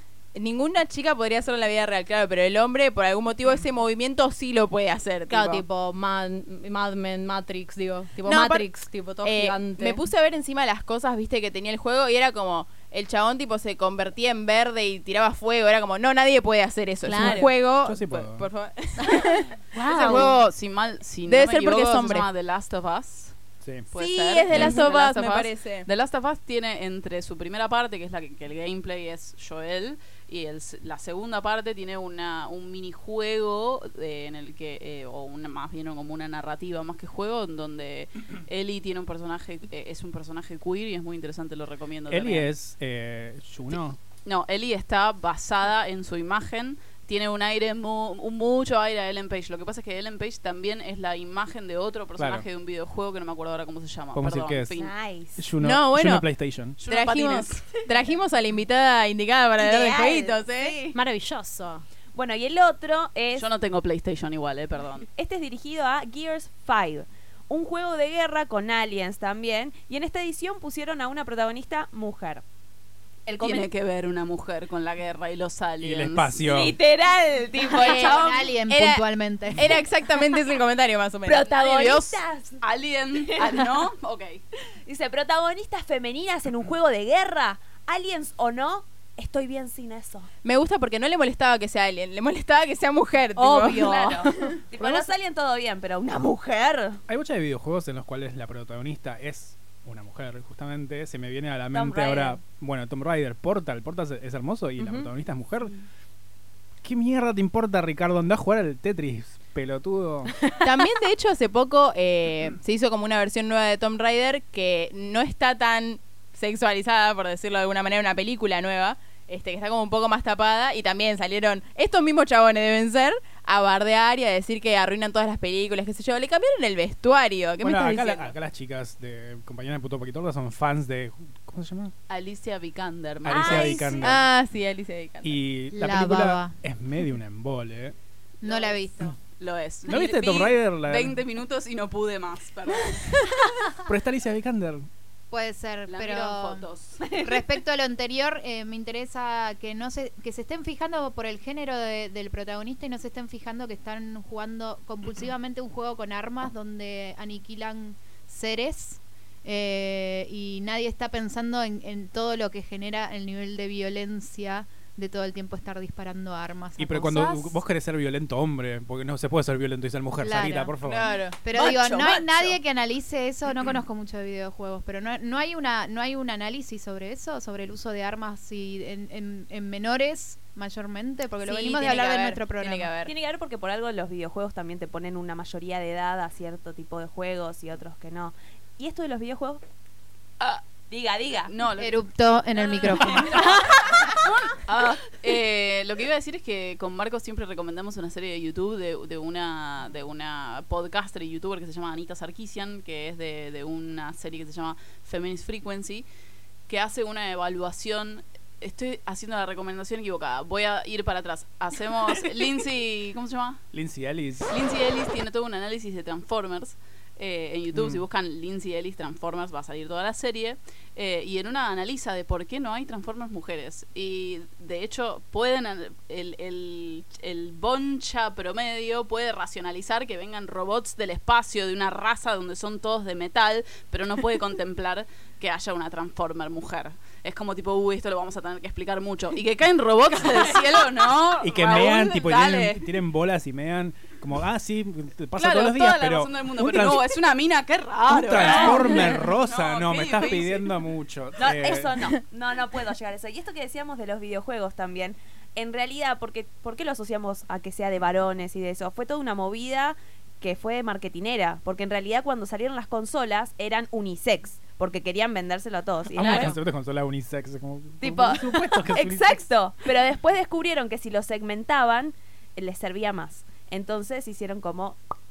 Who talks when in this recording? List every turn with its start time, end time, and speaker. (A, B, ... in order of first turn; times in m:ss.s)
0:00.4-0:05.6 A
0:05.3-0:10.0 B
0:08.2-0:08.7 A
0:09.2-0:20.5 A
0:17.0-0:17.5 B
0:17.2-0:18.5 C
0:19.8-0:20.4 B
0:19.9-0:23.4 D
0:21.3-0:22.3 A
0:23.6-0:23.9 C
0:23.9-0:42.5 D
0:23.9-0:25.9 A
0:42.1-0:44.0 C
0:44.2-0:54.9 D
0:52.2-0:52.5 C
0:54.1-0:54.8 C
0:54.7-0:55.5 E
0:55.4-0:56.8 C
0:55.6-0:56.3 A
0:56.8-0:57.6 D
0:56.9-1:00.8 A
0:59.6-1:01.0 E
1:00.9-1:01.8 B
1:02.1-1:03.5 E
1:03.4-1:05.1 D
1:05.2-1:12.4 E
1:13.3-1:13.7 E
1:13.3-1:16.4 D
1:15.8-1:16.8 C
1:16.4-1:18.5 E
1:17.6-1:22.2 A
1:18.0-1:19.7 F
1:21.2-1:22.6 E
1:22.6-1:24.4 D
1:23.2-1:23.9 E
1:24.9-1:30.3 E
1:30.4-1:34.5 A
1:33.4-1:35.1 B
1:33.7-1:37.0 E
1:37.1-1:45.7 C
1:41.7-1:42.4 E
1:44.8-1:45.1 B
1:46.8-1:50.4 C
1:50.6-2:08.3 A
2:07.6-2:11.9 C
2:12.1-2:14.0 D
2:13.3-2:14.2 C
2:13.3-2:14.2 E
2:14.0-2:15.4 A
2:15.2-2:18.0 C
2:15.7-2:16.6 F
2:18.4-2:19.2 F
2:19.4-2:23.1 D
2:19.9-2:21.2 C
2:23.8-2:24.9 C
2:25.3-2:47.6 F
2:25.9-2:27.0 D
2:27.0-2:27.4 E
2:46.8-2:51.1 C
2:50.2-2:50.8 F
2:50.8-2:51.4 A
2:51.4-3:03.0 F
2:51.5-2:52.6 E
3:01.4-3:03.1 A
3:03.0-3:09.6 E
3:10.9-3:11.5 E
3:11.5-3:26.1 D
3:11.8-3:13.5 F
3:13.4-3:14.0 E
3:26.7-3:33.6 D
3:33.7-3:34.5 C
3:34.5-4:02.8 D
3:37.7-3:38.0 C
4:01.4-4:07.1 C
4:05.4-4:10.7 D
4:08.1-4:12.0 C
4:11.4-4:26.6 E
4:26.1-4:29.4 C
4:28.0-4:35.0 E